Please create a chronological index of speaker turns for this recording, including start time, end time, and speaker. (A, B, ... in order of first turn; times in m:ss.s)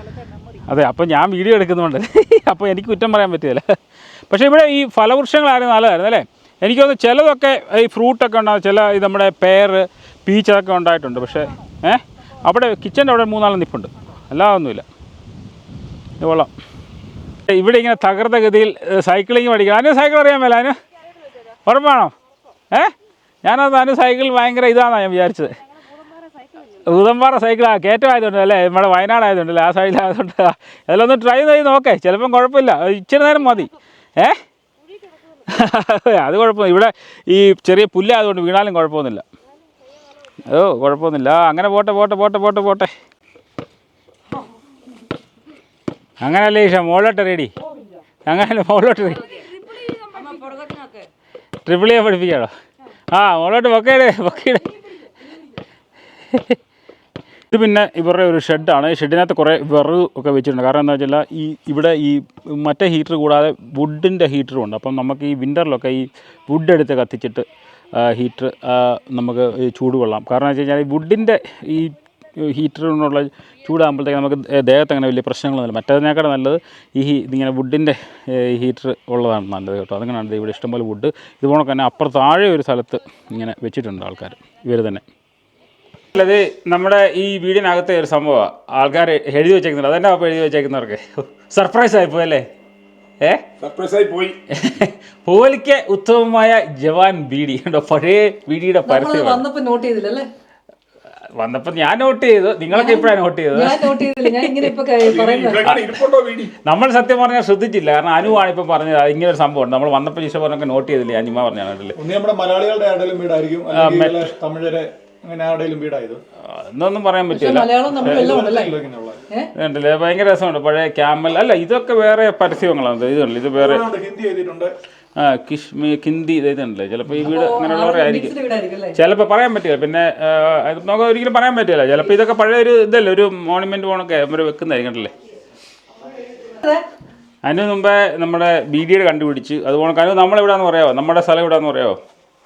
0:00.2-0:00.4 A
0:00.5-0:03.8 B
0:04.3-0:14.9 B
0:16.2-0:16.5 B
0:17.5-0:20.8 B
0:21.6-0:22.1 B
0:23.4-0:25.6 B
0:26.7-0:34.4 B
0:35.4-0:39.2 B
0:40.4-0:42.9 B
0:46.2-0:47.5 B
0:48.3-0:49.5 B
0:49.6-0:51.0 A
0:51.6-0:52.5 B
0:53.1-0:54.8 B
0:56.3-0:56.6 B
0:57.5-1:25.0 B
1:26.1-1:32.5 B
1:33.2-1:33.5 B
1:33.6-1:34.4 C
1:34.5-1:39.4 B
1:38.9-1:40.3 A
1:41.4-1:44.7 B
1:42.7-1:45.8 A
1:45.0-1:46.5 C
1:45.6-1:52.0 B
1:52.0-1:56.2 D
1:53.7-1:54.3 B
1:56.4-1:58.3 B
1:57.3-1:58.8 A
1:58.0-1:59.2 D
1:59.5-2:03.9 B
2:03.6-2:04.7 D
2:05.2-2:08.4 B
2:07.2-2:09.0 A
2:08.9-2:15.1 B
2:16.4-2:16.8 A
2:17.4-2:22.0 B